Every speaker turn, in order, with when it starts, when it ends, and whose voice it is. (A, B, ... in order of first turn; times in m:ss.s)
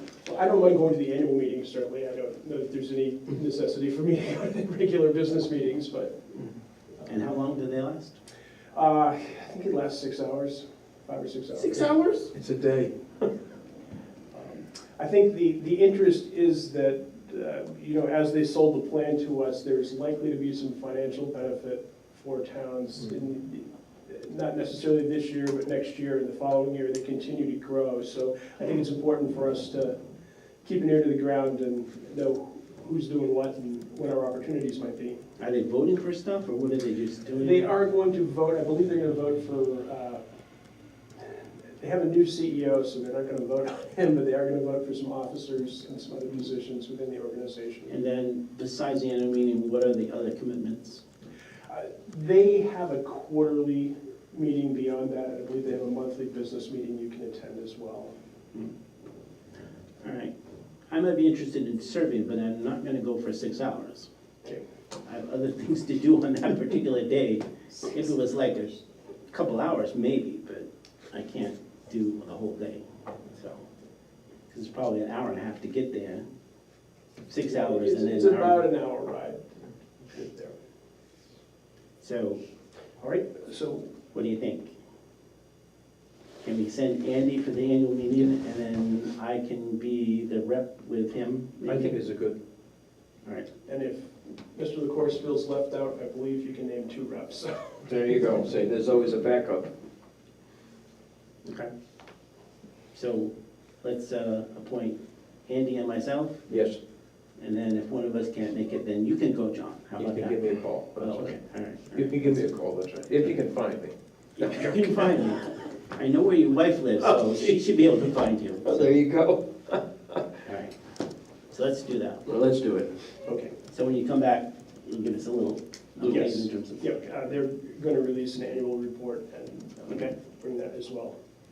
0:00.2-0:06.3 A
0:07.0-0:08.2 B
0:08.7-0:11.9 A
0:11.6-0:12.3 B
0:12.3-0:12.9 C
0:14.3-0:30.0 A
0:30.6-0:35.2 A
0:35.4-0:37.7 B
0:37.4-0:40.2 A
0:41.2-0:47.9 A
0:47.9-0:51.0 B
0:51.7-0:58.1 A
1:00.0-1:00.3 B
1:00.9-1:04.1 B
1:05.0-1:13.6 B
1:14.5-1:16.2 B
1:17.2-1:18.6 B
1:17.4-1:20.6 A
1:22.0-1:22.4 B
1:23.0-1:23.9 A
1:24.1-1:24.7 B
1:26.4-1:32.0 B
1:31.6-1:32.4 C
1:33.6-1:37.8 A
1:37.8-1:39.7 C
1:41.4-1:41.7 B
1:42.9-1:46.5 B
1:46.5-1:46.8 C
1:47.4-1:50.4 B
1:50.0-1:51.4 C
1:51.0-1:52.5 B
1:51.9-1:55.1 C
1:54.4-1:58.9 B
1:58.6-1:59.8 C
2:00.4-2:00.7 B
2:01.5-2:02.2 B
2:02.2-2:02.9 C
2:03.2-2:03.5 A
2:03.7-2:07.0 B
2:06.0-2:11.2 A